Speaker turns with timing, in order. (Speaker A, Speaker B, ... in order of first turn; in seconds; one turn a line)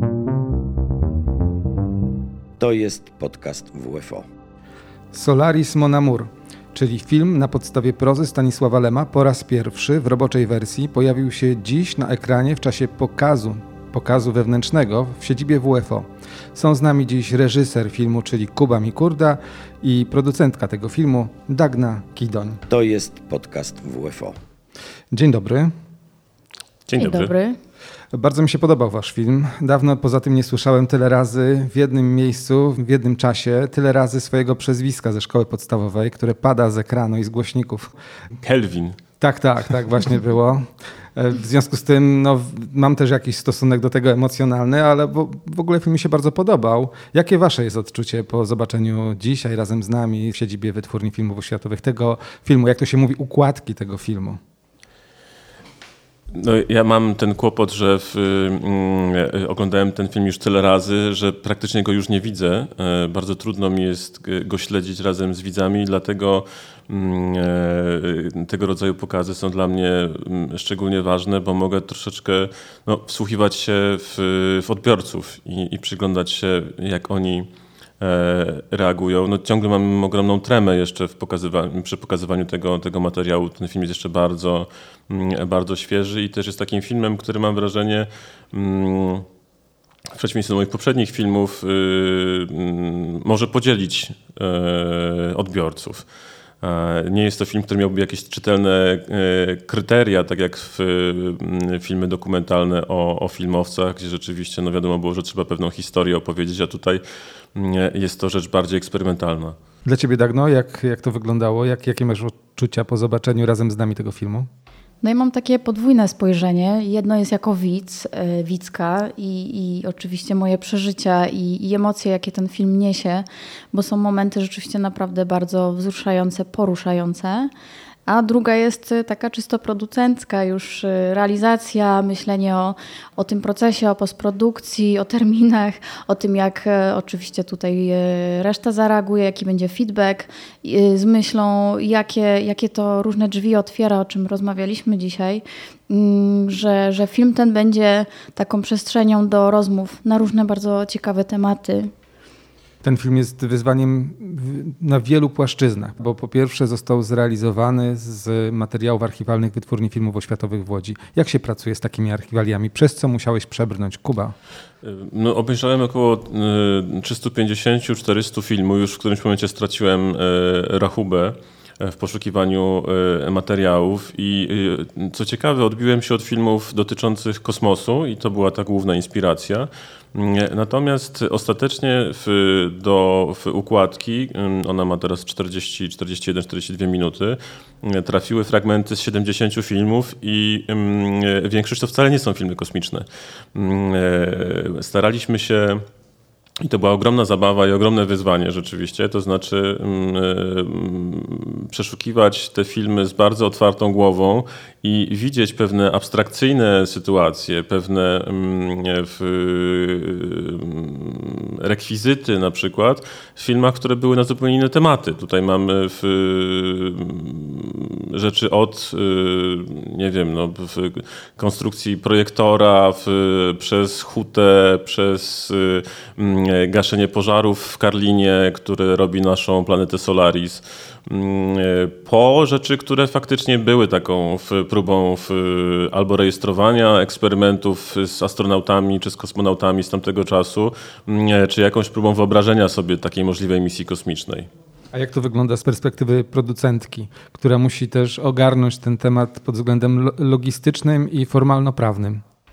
Speaker A: 2.6-4.2
Speaker B: 5.1-22.6
Speaker A: 22.7-24.4
Speaker B: 25.1-25.7
Speaker C: 26.9-27.3
Speaker D: 27.0-27.6
Speaker B: 28.1-37.9
Speaker C: 38.4-39.0
Speaker B: 39.2-54.4
Speaker C: 56.3-77.5
Speaker C: 78.0-89.2
Speaker C: 90.1-96.0
Speaker C: 96.6-107.0
Speaker C: 107.5-109.5
Speaker B: 109.8-114.5
Speaker D: 115.0-127.5
Speaker D: 128.1-151.9
Speaker B: 152.8-164.3
Speaker C: 164.8-195.8
Speaker C: 196.6-244.5
Speaker B: 244.9-252.2